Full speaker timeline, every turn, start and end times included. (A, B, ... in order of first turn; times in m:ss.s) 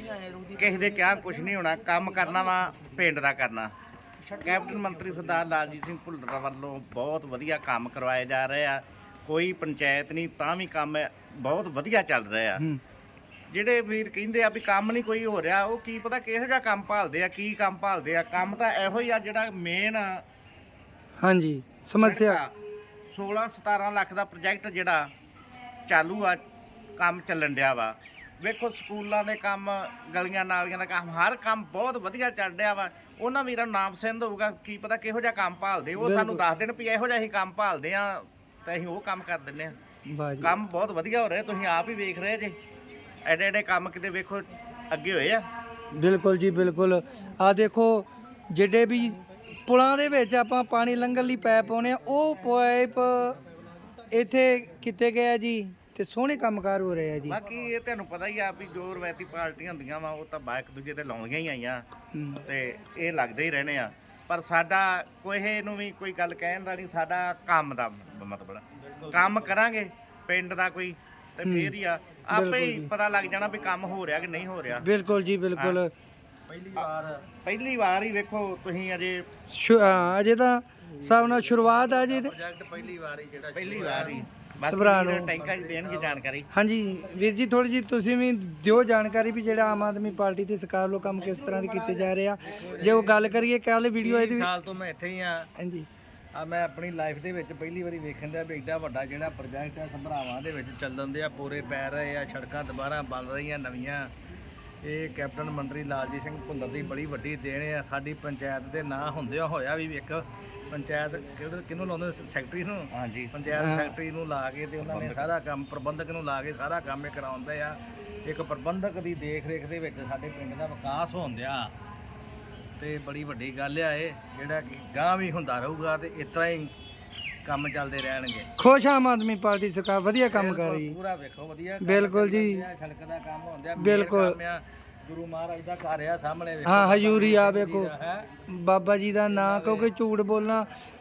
0:00.1-0:00.4 A
0:00.6-0:03.7 B
0:04.4-0:12.6 B
0:13.5-0:20.2 B
0:21.2-0:22.4 C
0:22.0-0:22.5 B
0:23.1-0:25.1 B
0:25.9-0:26.4 B
0:27.0-0:39.8 B
0:36.0-0:36.4 C
0:40.1-0:40.5 C
0:40.4-0:42.6 B
0:43.2-0:45.4 B
0:45.9-0:53.4 C
0:54.1-0:57.4 C
0:57.3-1:01.8 B
1:02.1-1:02.4 C
1:02.4-1:14.8 B
1:09.0-1:09.5 A
1:11.4-1:11.7 C
1:12.3-1:12.9 C
1:14.8-1:15.9 C
1:16.5-1:17.3 A
1:17.4-1:19.2 B
1:19.5-1:22.3 C
1:21.0-1:24.2 A
1:23.5-1:26.5 B
1:24.6-1:25.3 C
1:25.3-1:26.2 A
1:26.5-1:34.5 C
1:32.4-1:33.2 A
1:34.0-1:35.5 A
1:35.6-1:35.9 C
1:36.3-1:44.1 A
1:44.8-2:01.7 A
1:52.9-1:53.4 B
1:53.5-1:54.0 C
1:54.8-1:55.2 B
2:02.8-2:06.7 A
2:07.4-2:08.5 A
2:08.6-2:11.0 C
2:10.3-2:18.2 A
2:11.8-2:12.6 C
2:13.8-2:14.4 C
2:16.6-2:17.9 C
2:18.5-2:20.7 C
2:19.3-2:19.9 A